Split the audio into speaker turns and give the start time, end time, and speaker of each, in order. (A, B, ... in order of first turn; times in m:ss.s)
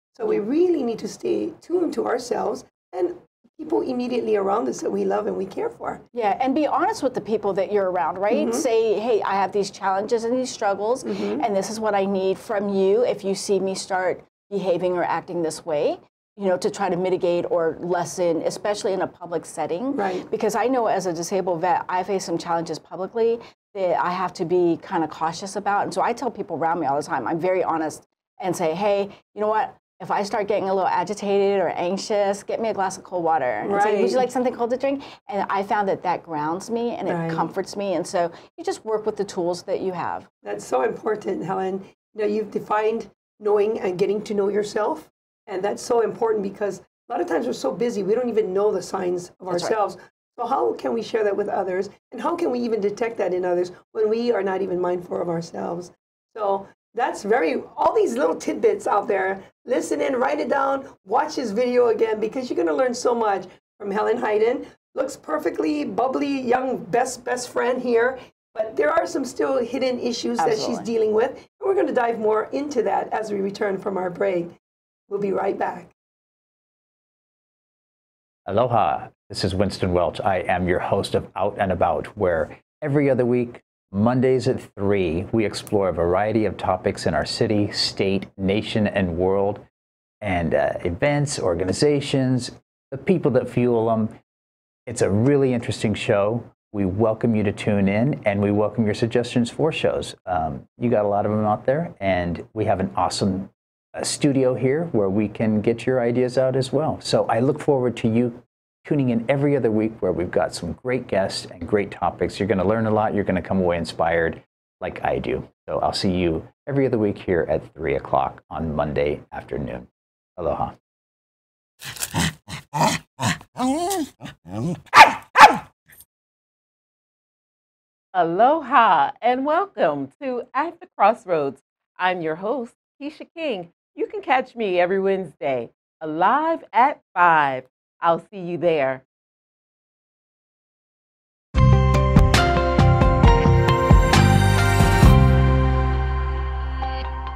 0:00.1-0:06.0 A
0:06.1-0:40.3 B
0:08.3-0:08.6 A
0:11.0-0:11.4 A
0:19.9-0:20.2 A
0:33.6-0:34.3 A
0:37.0-0:37.5 A
0:40.4-1:14.6 A
1:10.4-1:10.9 B
1:15.1-1:15.9 A
1:18.4-1:29.6 C
1:30.2-1:34.1 C
1:34.9-2:00.7 C
2:08.1-2:19.0 D